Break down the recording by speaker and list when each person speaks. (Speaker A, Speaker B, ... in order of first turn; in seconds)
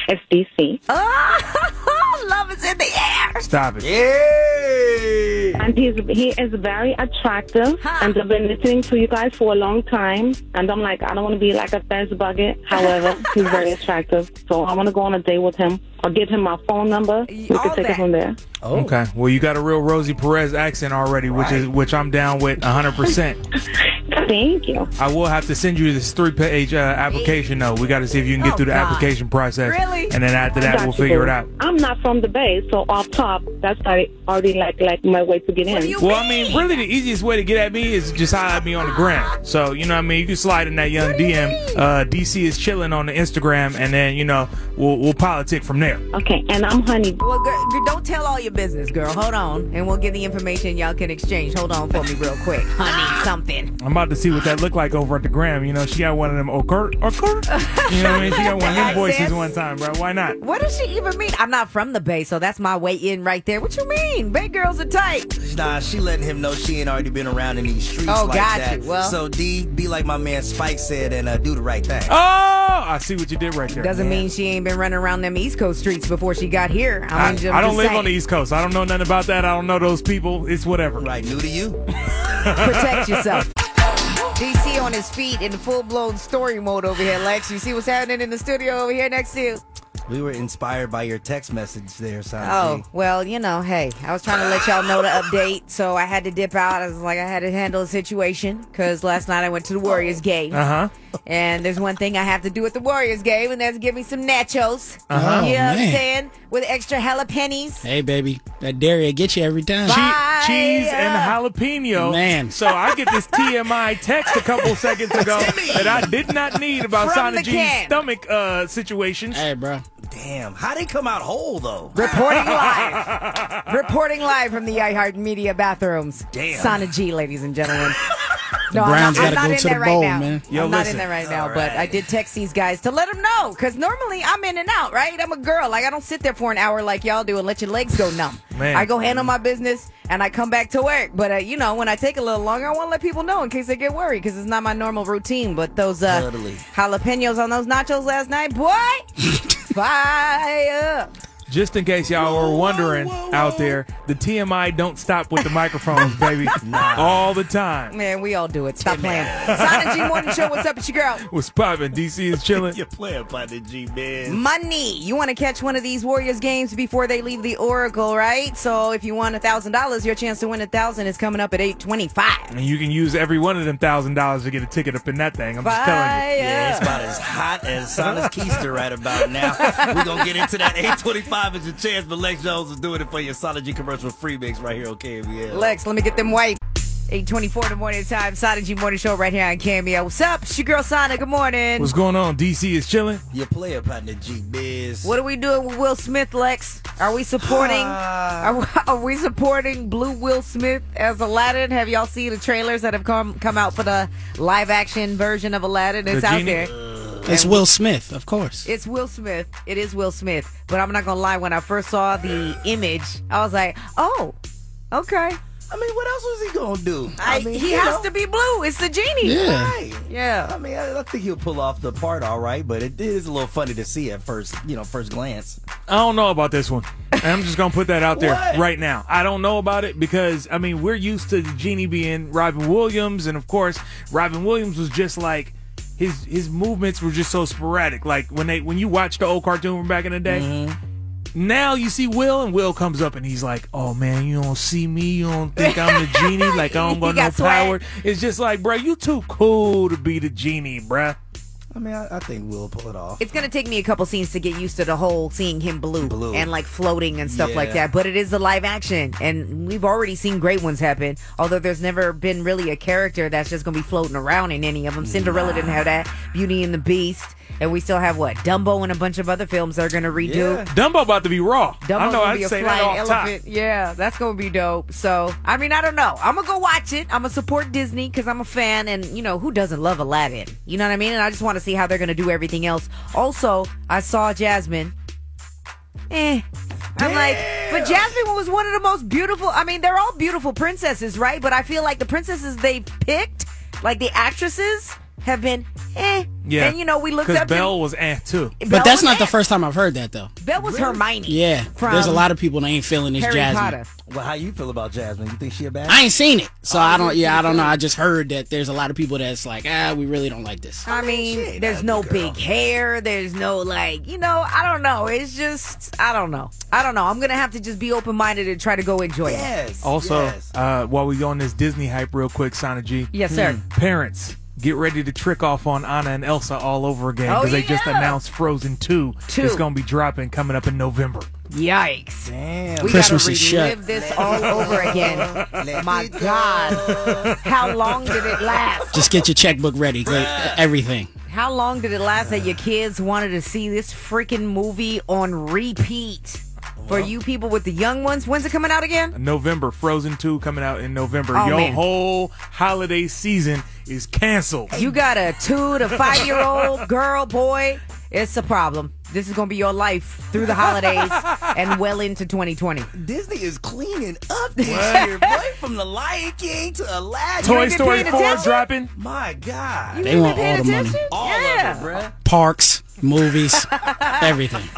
Speaker A: 0.1-0.8, 5.6-18.4, 24.1-24.9, 30.6-35.9, 46.1-47.2
Speaker B: 0.9-3.4, 7.8-8.2, 17.3-18.1, 28.4-29.1, 29.6-30.2, 35.7-36.7, 41.1-41.8, 47.2-53.7, 57.5-59.5, 60.4-65.3, 68.1-69.2, 73.7-78.1, 82.6-83.5, 84.4-89.6, 92.4-100.6, 101.3-107.9, 109.9-111.4, 115.2-115.7, 116.9-118.0, 121.9-123.0, 123.7-128.0, 128.7-151.1, 157.9-161.2, 164.3-172.5, 175.6-176.9, 179.4-180.4, 185.5-191.9, 195.0-206.7, 207.3-207.6, 208.7-214.4, 214.9-215.4, 217.2-219.4, 220.1-220.5, 245.6-247.8, 253.2-270.6, 271.8-284.9, 286.1-297.7, 298.6-299.4, 300.4-302.2, 303.2-303.9, 310.9-319.5, 323.1-323.6, 327.3-328.2, 329.3-329.6, 331.5-339.0, 341.3-349.1, 351.3-351.8, 354.7-362.9, 364.6-365.4, 367.4-368.7, 369.9-371.9, 373.5-374.4
Speaker C: 3.4-3.9, 18.7-23.4, 25.0-31.5, 36.0-46.0, 53.8-60.4, 72.1-74.2, 77.2-81.1, 82.5-83.4, 100.5-100.9, 105.1-105.5, 109.9-119.4, 122.0-123.7, 130.5-131.1, 138.5-138.9, 151.5-157.9, 159.5-160.6, 161.2-162.8, 172.5-176.4, 191.8-193.2, 206.1-206.7, 225.9-240.5, 241.3-251.2, 270.7-273.3, 296.5-298.6, 319.8-331.3, 334.3-335.5, 349.1-354.8, 356.1-356.4, 360.6-361.4, 364.7-365.1, 367.4-368.9
Speaker D: 3.8-5.6, 18.6-19.0, 21.2-21.7, 58.0-59.1, 65.4-72.2, 81.0-81.8, 90.1-92.9, 94.5-95.2, 99.9-100.2, 115.2-116.1, 120.1-122.0, 126.3-126.9, 131.2-132.1, 139.0-139.3, 146.1-146.7, 152.2-153.8, 156.0-157.3, 158.8-159.7, 162.4-164.4, 176.4-185.8, 193.3-195.2, 197.4-198.6, 206.8-207.3, 215.7-218.1, 219.4-225.6, 228.1-228.7, 240.2-240.8, 251.7-253.2, 256.0-256.5, 257.2-257.9, 265.0-265.8, 270.2-270.7, 287.0-288.2, 300.6-301.1, 304.1-306.1, 306.7-307.8, 310.9-312.4, 319.2-320.5, 323.3-323.6, 332.2-333.1, 333.9-339.1, 340.0-340.6, 342.2-342.6, 346.8-347.1, 354.7-355.1, 362.9-370.1, 371.1-372.1
Speaker E: 105.1-106.0, 107.8-109.9, 112.0-112.5, 119.3-119.8, 128.7-130.4, 207.2-208.7, 219.2-219.7, 298.7-300.3, 301.3-303.8, 305.9-310.8, 332.9-333.8, 338.9-341.1, 370.1-371.0, 372.2-374.7